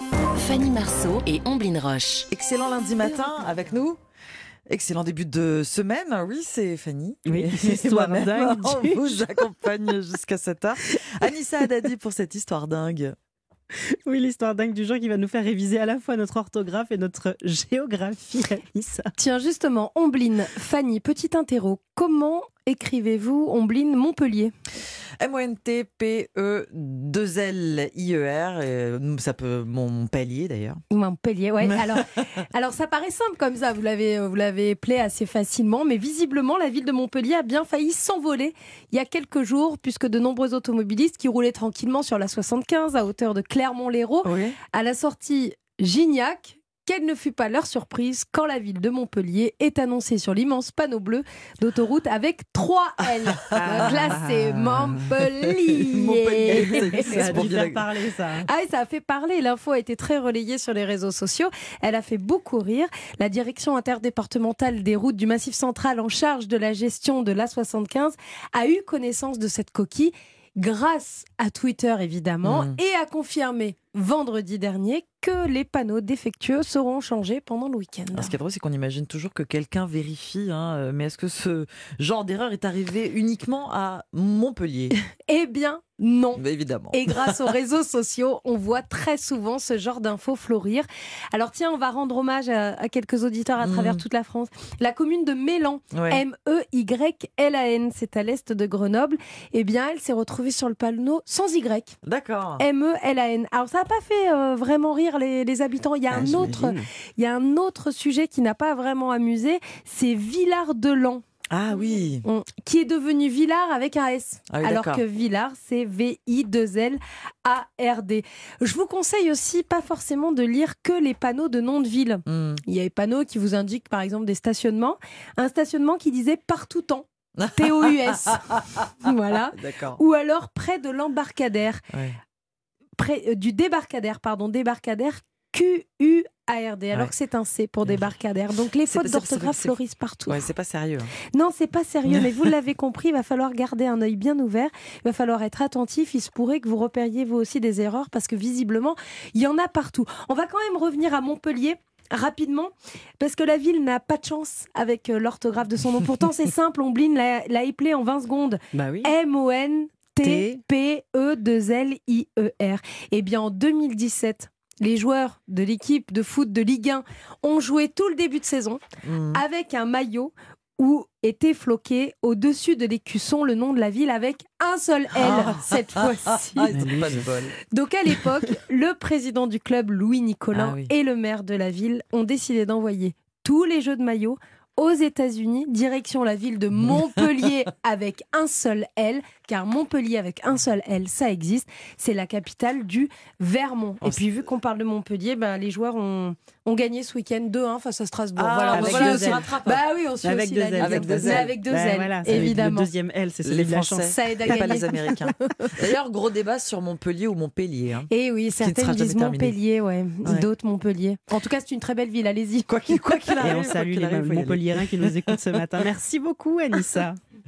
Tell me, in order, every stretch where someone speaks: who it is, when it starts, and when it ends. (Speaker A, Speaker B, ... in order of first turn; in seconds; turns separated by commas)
Speaker A: 0.3-2.2, Speaker B: 2.3-4.0, Speaker B: 4.7-13.2, Speaker C: 7.2-9.2, Speaker C: 14.1-19.1, Speaker D: 19.2-24.5, Speaker B: 25.2-30.8, Speaker D: 30.9-57.5, Speaker B: 31.6-32.0, Speaker B: 44.2-44.6, Speaker C: 53.5-55.0, Speaker B: 53.6-54.1, Speaker B: 55.5-57.9, Speaker C: 56.5-58.5, Speaker D: 58.3-78.3, Speaker B: 72.4-72.8, Speaker B: 78.1-85.0, Speaker D: 85.1-102.0, Speaker B: 86.3-87.5, Speaker B: 93.6-94.0, Speaker B: 95.9-96.2, Speaker B: 102.0-102.6, Speaker D: 102.6-111.2, Speaker B: 106.1-106.8, Speaker B: 111.5-112.2, Speaker D: 112.2-131.8, Speaker B: 114.5-115.0, Speaker B: 122.3-122.6, Speaker B: 127.4-128.9, Speaker B: 129.5-130.0, Speaker B: 131.9-132.2, Speaker D: 132.9-140.4, Speaker B: 138.8-141.1, Speaker D: 141.3-176.7, Speaker B: 142.1-142.5, Speaker C: 158.7-159.1, Speaker C: 160.2-160.6, Speaker B: 169.0-169.4, Speaker B: 175.1-177.6, Speaker C: 176.7-177.2, Speaker D: 177.6-202.9, Speaker B: 180.5-180.9, Speaker B: 194.0-194.3, Speaker B: 198.3-199.8, Speaker C: 198.7-199.4, Speaker C: 200.2-204.1, Speaker B: 200.8-201.5, Speaker B: 202.2-202.5, Speaker B: 203.4-209.6, Speaker D: 204.1-205.8, Speaker D: 208.1-213.1, Speaker B: 212.7-215.6, Speaker C: 213.4-217.2